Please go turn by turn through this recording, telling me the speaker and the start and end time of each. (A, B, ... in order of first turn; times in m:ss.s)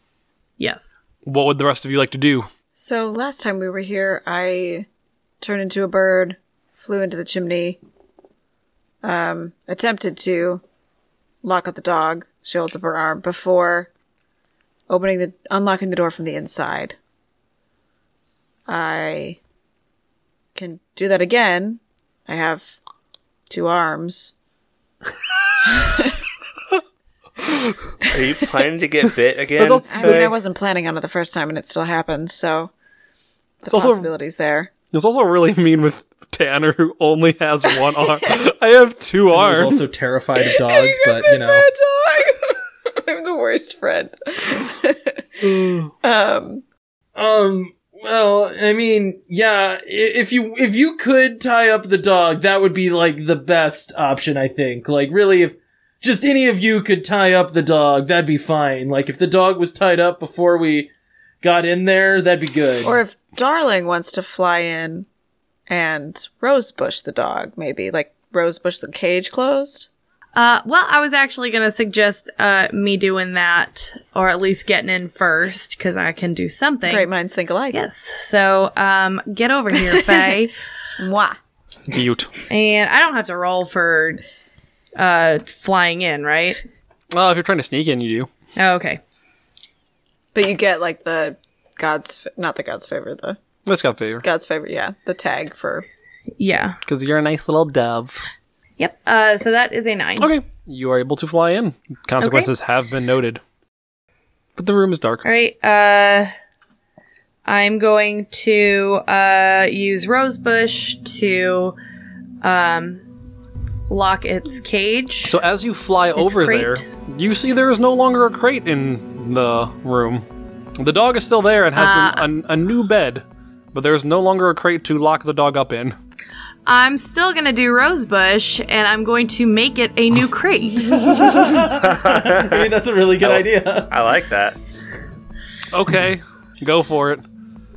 0:00.6-0:01.0 A
0:01.2-0:02.5 B
0:02.8-0:04.9 C
0:05.4-0:07.8 C
0:09.0-0:10.6 C
0:11.4-0:13.9 C
0:14.9-0:17.0 C
0:18.7-0:19.4 C
0:20.6-0:22.8 C
0:23.5-0:24.3 C
0:25.6-0:26.2 C
0:28.1-0:30.3 D
0:29.6-0:30.4 B
0:29.8-0:32.7 C
0:33.6-0:34.7 C
0:33.7-0:34.1 B
0:34.9-0:39.8 B
0:37.7-0:38.4 C
0:39.3-0:41.7 E
0:40.4-0:46.6 C
0:45.4-0:45.9 B
0:47.2-1:00.9 E
1:01.4-1:03.0 E
1:02.8-1:05.1 C
1:05.7-1:09.9 C
1:10.4-1:17.1 A
1:16.9-1:17.8 C
1:17.7-1:20.5 A
1:19.9-1:20.4 C
1:21.0-1:21.4 C
1:21.9-1:22.3 B
1:22.5-1:24.2 A
1:25.0-1:26.6 A
1:27.1-1:28.3 B
1:28.6-1:29.0 A
1:30.3-1:33.4 C
1:33.7-1:34.2 B
1:34.2-1:35.9 C
1:36.4-1:36.8 A
1:36.9-1:38.2 B
1:38.8-1:40.3 A
1:40.2-1:43.4 B
1:42.2-1:42.5 A
1:44.6-1:45.2 B
1:45.2-1:46.3 A
1:47.5-1:51.8 A
1:52.4-1:53.0 A
1:53.9-1:55.4 A
1:55.2-2:00.2 B
1:56.2-1:56.8 A
2:00.8-2:06.0 B
2:01.8-2:02.3 A
2:06.7-2:11.0 A
2:10.8-2:13.9 E
2:11.8-2:12.7 D
2:13.2-2:14.6 D
2:15.7-2:17.2 B